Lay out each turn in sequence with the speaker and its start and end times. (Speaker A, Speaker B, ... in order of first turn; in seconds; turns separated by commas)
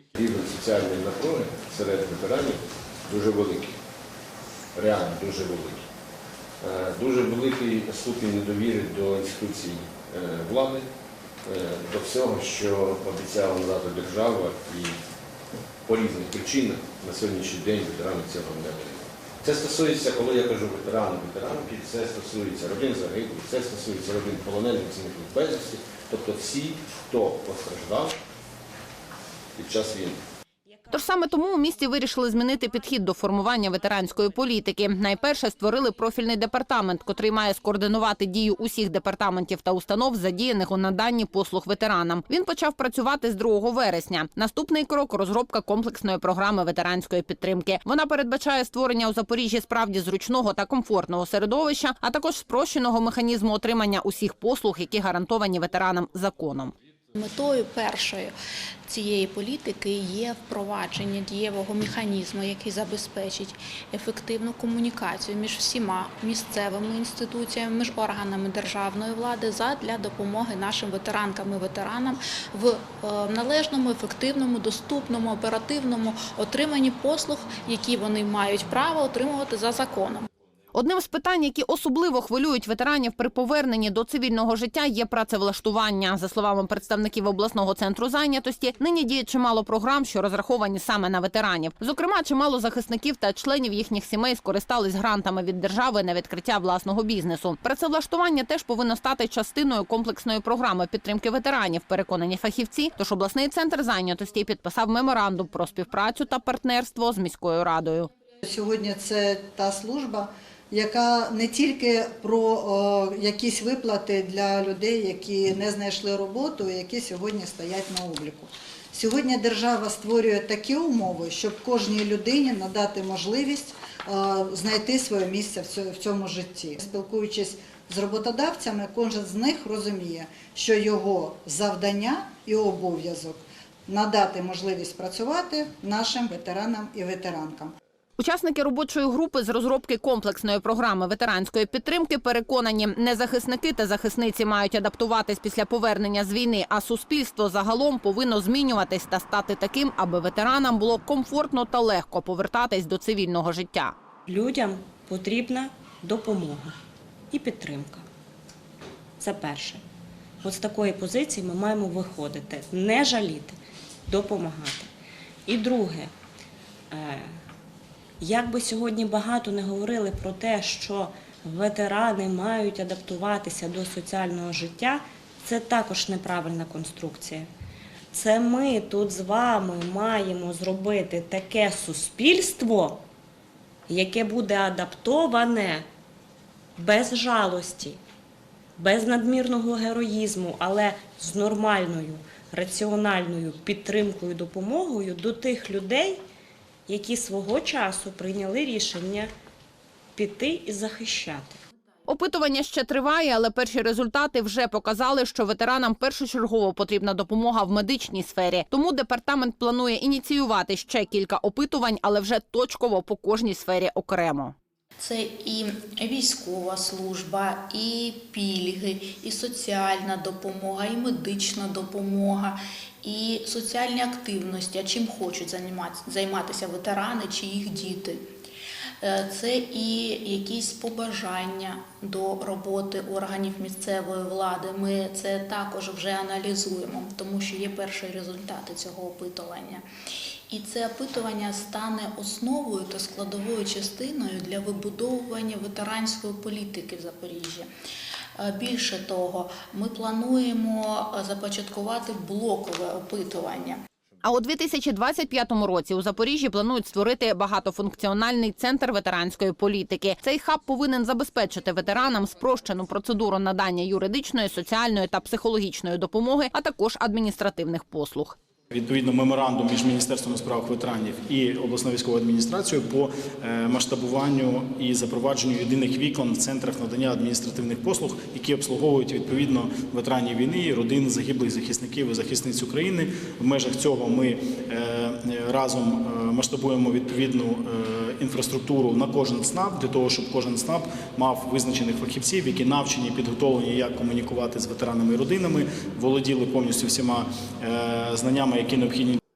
Speaker A: 0.2-3.8, Speaker A: 4.7-5.8, Speaker A: 6.6-10.9, Speaker A: 11.4-14.9, Speaker A: 15.8-28.1, Speaker A: 29.6-30.2, Speaker B: 30.9-56.7, Speaker C: 57.1-58.3, Speaker C: 58.9-80.3, Speaker B: 80.7-108.1, Speaker D: 108.4-137.7, Speaker B: 138.2-153.9, Speaker E: 154.3-156.8, Speaker E: 157.3-158.0, Speaker E: 159.2-159.8, Speaker E: 160.4-163.6, Speaker E: 164.1-164.9, Speaker E: 165.5-166.1, Speaker E: 166.9-167.3, Speaker E: 168.2-177.5, Speaker E: 178.1-183.0, Speaker E: 183.9-185.8, Speaker E: 186.8-188.0, Speaker E: 188.8-196.2, Speaker E: 196.9-199.3, Speaker E: 200.2-201.6, Speaker B: 202.1-214.5, Speaker C: 215.0-228.2, Speaker C: 229.0-239.8, Speaker C: 240.5-247.7, Speaker C: 248.4-253.8, Speaker B: 254.2-268.4, Speaker F: 268.7-299.2